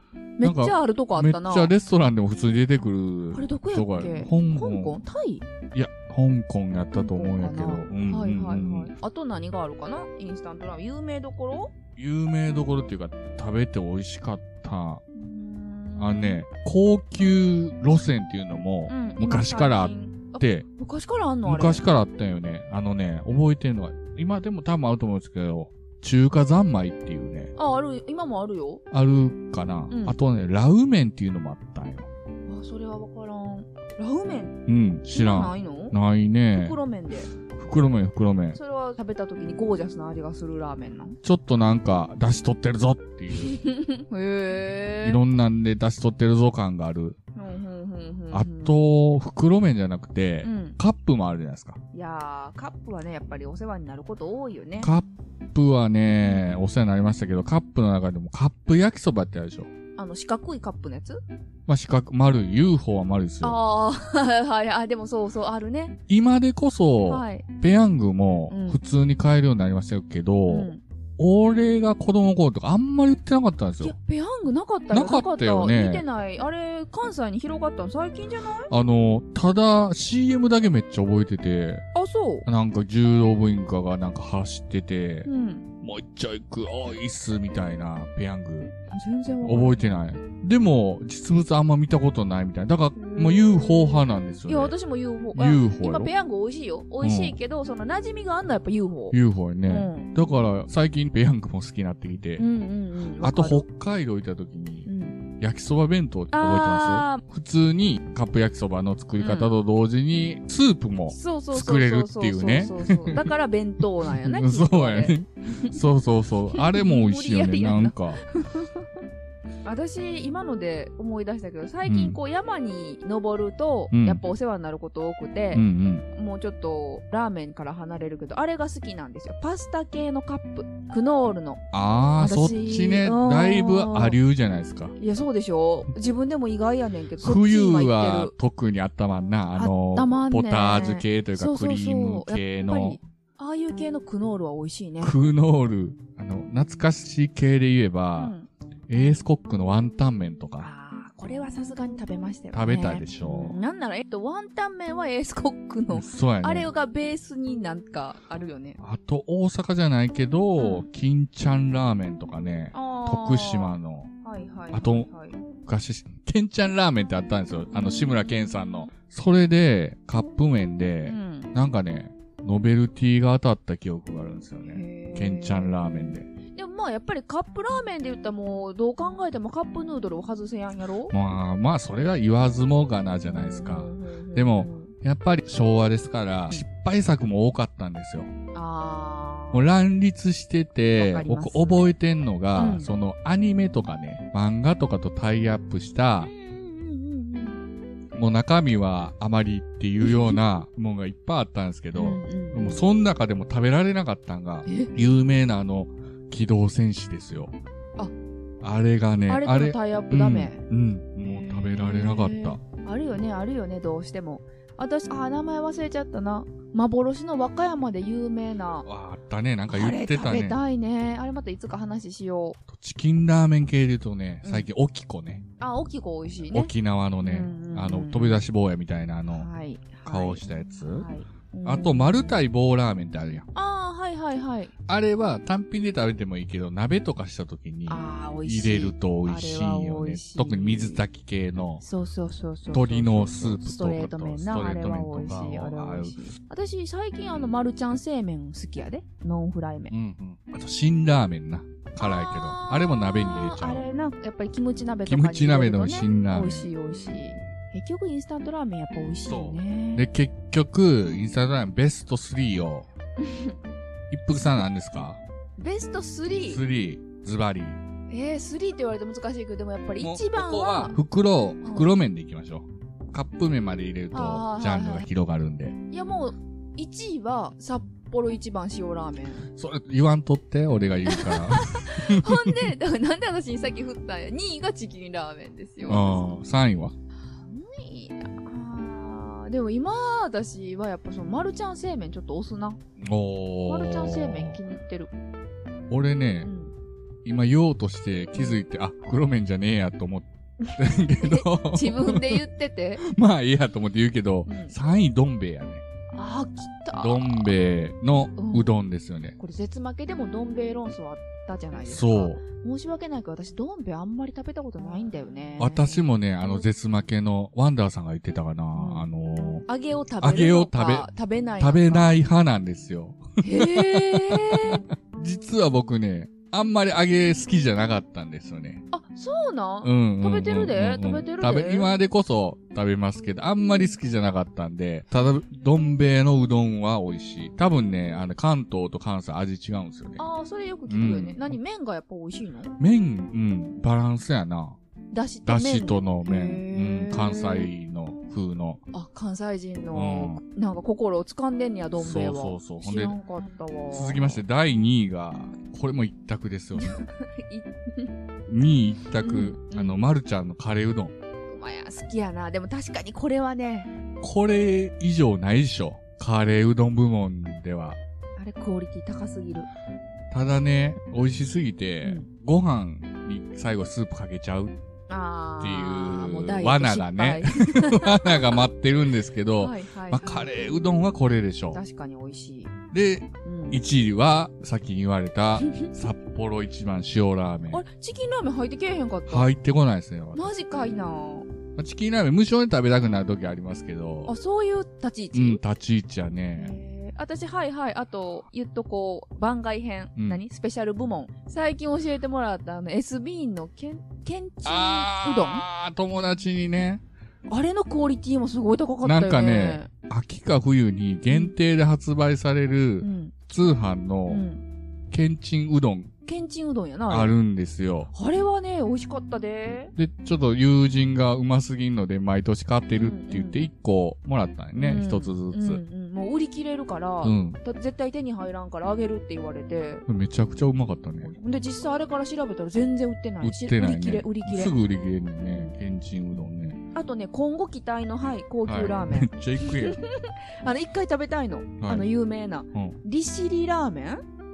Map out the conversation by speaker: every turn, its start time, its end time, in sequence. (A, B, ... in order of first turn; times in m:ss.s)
0:00.4-0:01.7 A
0:00.4-0:05.0 B
0:03.3-0:05.5 A
0:05.7-0:08.9 B
0:06.9-0:11.7 A
0:12.0-0:15.0 B
0:15.1-0:16.4 A
0:16.0-0:20.7 B
0:18.9-0:21.8 A
0:21.4-0:27.5 B
0:27.6-0:28.8 A
0:28.9-0:32.1 B
0:29.9-0:30.2 A
0:32.5-0:36.0 A
0:34.7-0:36.8 B
0:36.5-0:37.3 A
0:37.6-0:38.6 B
0:38.5-0:41.2 A
0:41.2-0:43.6 B
0:43.4-0:45.2 A
0:45.0-0:47.2 B
0:47.4-0:48.8 A
0:48.3-0:51.8 B
0:50.4-0:50.8 A
0:51.9-0:54.9 A
0:54.8-0:59.7 B
0:56.2-0:56.5 A
1:00.0-1:01.2 A
1:01.7-1:03.6 B
1:03.4-1:06.0 A
1:06.1-1:14.0 B
1:07.1-1:07.5 A
1:08.5-1:08.8 A
1:10.5-1:10.8 A
1:13.8-1:18.7 A
1:14.9-1:16.0 B
1:18.7-1:21.8 B
1:21.9-1:22.5 A
1:22.4-1:25.3 B
1:25.3-1:25.7 A
1:25.8-1:28.7 B
1:28.9-1:29.9 A
1:29.4-1:34.8 B
1:33.0-1:39.2 A
1:35.3-1:36.1 B
1:37.0-1:37.4 B
1:39.1-1:42.5 B
1:39.7-1:40.1 A
1:42.4-1:43.6 A
1:43.2-1:44.9 B
1:44.9-1:45.2 A
1:45.4-1:53.3 B
1:46.3-1:47.2 A
1:49.2-1:49.5 A
1:51.1-1:55.8 A
1:54.0-1:58.2 B
1:56.5-1:58.9 A
1:59.6-2:11.6 A
2:01.8-2:02.2 B
2:03.9-2:04.2 B
2:05.5-2:06.1 B
2:11.7-2:15.0 B
2:12.2-2:14.2 A
2:15.0-2:18.3 A
2:17.2-2:23.0 B
2:19.5-2:25.1 A
2:25.0-2:28.4 B
2:28.2-2:28.5 A
2:28.9-2:30.7 B
2:30.6-2:38.8 A
2:32.5-2:33.6 B
2:35.9-2:36.7 B
2:38.8-2:44.1 B
2:40.6-2:40.9 A
2:42.7-2:45.4 A
2:44.7-2:45.1 B
2:45.6-2:56.3 B
2:47.7-2:48.9 A
2:51.0-2:51.5 A
2:54.7-3:01.1 A
3:01.1-3:08.3 B
3:03.3-3:04.9 A
3:08.5-3:09.7 A
3:09.5-3:16.3 B
3:11.0-3:11.9 A
3:12.6-3:12.9 A
3:16.2-3:17.7 A
3:18.1-3:27.6 B
3:20.0-3:20.4 A
3:22.0-3:22.8 A
3:24.7-3:24.9 A
3:28.6-3:32.6 B
3:29.3-3:30.6 A
3:31.2-3:38.9 A
3:38.8-3:40.6 B
3:39.7-3:42.6 A
3:42.7-3:45.4 B
3:45.6-3:46.7 A
3:46.5-3:49.5 B
3:47.2-3:48.4 A
3:49.3-3:52.3 A
3:50.0-3:51.1 B
3:51.6-3:53.5 B
3:53.5-3:54.7 A
3:54.9-4:01.8 B
3:57.9-4:01.0 A
4:01.8-4:09.9 A
4:02.7-4:06.3 B
4:09.9-4:13.8 B
4:12.0-4:20.1 A
4:15.1-4:17.5 B
4:19.3-4:22.9 B
4:23.2-4:23.6 A
4:24.1-4:25.2 B
4:25.6-4:26.6 A
4:26.4-4:27.8 B
4:28.1-4:31.0 A
4:30.0-4:35.8 B
4:31.6-4:31.9 A
4:34.1-4:35.1 A
4:35.9-4:39.5 A
4:39.6-4:42.7 B
4:41.1-4:46.4 A
4:45.9-4:46.9 B
4:47.3-4:52.8 A
4:53.0-4:54.6 B
4:53.6-4:55.1 A
4:55.9-4:56.5 B
4:56.4-4:56.7 A
4:57.2-5:02.5 B
4:58.4-4:58.6 A
5:00.6-5:03.0 A
5:03.0-5:05.8 B
5:04.5-5:04.8 A
5:06.1-5:07.5 A
5:07.0-5:09.4 B
5:08.4-5:08.7 A
5:09.4-5:16.6 A
5:11.8-5:12.4 B
5:15.6-5:19.7 B
5:18.7-5:19.1 A
5:19.6-5:22.2 A
5:20.2-5:28.9 B
5:23.4-5:24.9 A
5:28.9-5:31.9 A
5:29.8-5:40.2 B
5:40.2-5:42.8 A
5:40.9-5:41.6 B
5:42.8-5:44.8 B
5:45.1-5:47.7 A
5:45.4-5:48.8 B
5:48.9-5:54.4 A
5:49.9-5:50.4 B
5:52.0-5:53.2 B
5:53.9-5:57.0 B
5:56.8-5:58.1 A
5:58.5-6:01.1 B
5:59.2-6:00.0 A
6:01.5-6:03.9 A
6:04.2-6:08.0 B
6:08.4-6:09.7 A
6:10.3-6:14.8 B
6:15.1-6:18.6 A
6:15.6-6:21.8 B
6:19.6-6:20.7 A
6:21.7-6:22.7 A
6:22.9-6:27.8 B
6:23.4-6:23.8 A
6:27.7-6:29.5 A
6:29.3-6:30.5 B
6:30.3-6:31.5 A
6:31.8-6:34.3 B
6:34.3-6:35.6 A
6:35.3-6:36.8 B
6:36.5-6:45.7 A
6:40.2-6:40.4 B
6:44.6-6:47.0 B
6:47.5-6:49.9 A
6:49.0-6:54.4 B
6:51.3-6:51.5 A
6:53.0-6:53.5 A
6:54.3-6:54.6 A
6:55.1-6:56.1 B
6:56.3-6:57.3 A
6:57.1-6:58.1 B
6:58.1-6:59.9 A
7:00.0-7:05.8 B
7:02.9-7:03.7 A
7:04.8-7:10.0 A
7:07.2-7:07.6 B
7:10.1-7:11.3 B
7:11.2-7:14.8 A
7:13.4-7:16.8 B
7:16.3-7:24.2 A
7:18.7-7:20.0 B
7:21.8-7:22.1 B